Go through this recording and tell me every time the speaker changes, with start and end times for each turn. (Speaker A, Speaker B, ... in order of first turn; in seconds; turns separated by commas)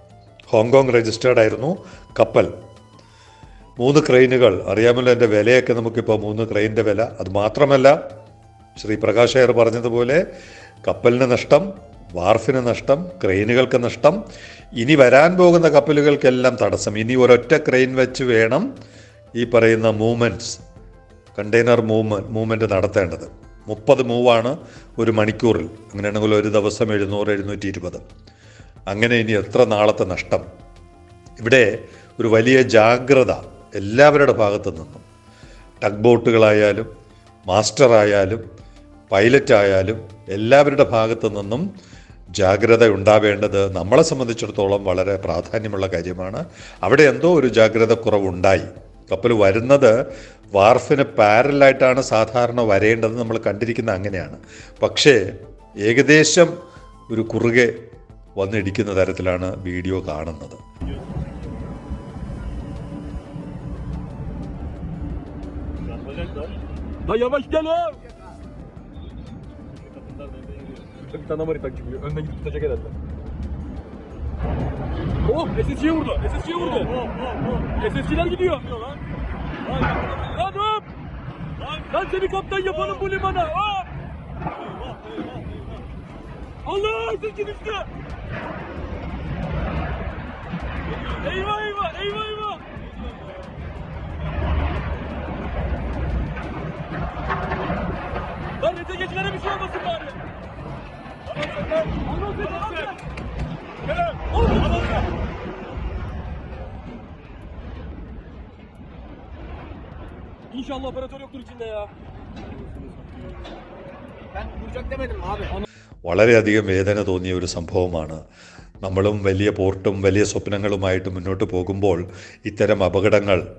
Speaker A: 0.5-2.5, Speaker A: 3.8-8.0, Speaker A: 8.8-10.2, Speaker A: 10.8-14.2, Speaker A: 14.8-18.7, Speaker A: 19.4-20.6, Speaker A: 21.4-28.0, Speaker A: 28.9-30.5, Speaker A: 31.4-35.0, Speaker A: 35.8-36.9, Speaker A: 37.5-38.4, Speaker A: 39.1-41.7, Speaker A: 42.4-50.0, Speaker A: 50.5-55.2, Speaker A: 55.9-56.5, Speaker A: 57.1-57.8, Speaker A: 58.4-60.6, Speaker B: 66.0-66.6, Speaker C: 67.1-68.0, Speaker B: 69.8-70.9, Speaker C: 71.0-72.9, Speaker C: 75.3-76.9, Speaker C: 77.8-78.8, Speaker C: 79.9-80.8, Speaker C: 81.8-83.9, Speaker C: 86.7-87.9, Speaker C: 91.1-92.6, Speaker C: 98.7-100.1, Speaker C: 102.2-102.8, Speaker C: 110.5-111.9, Speaker B: 114.7-115.4, Speaker A: 116.0-118.2, Speaker A: 118.8-123.5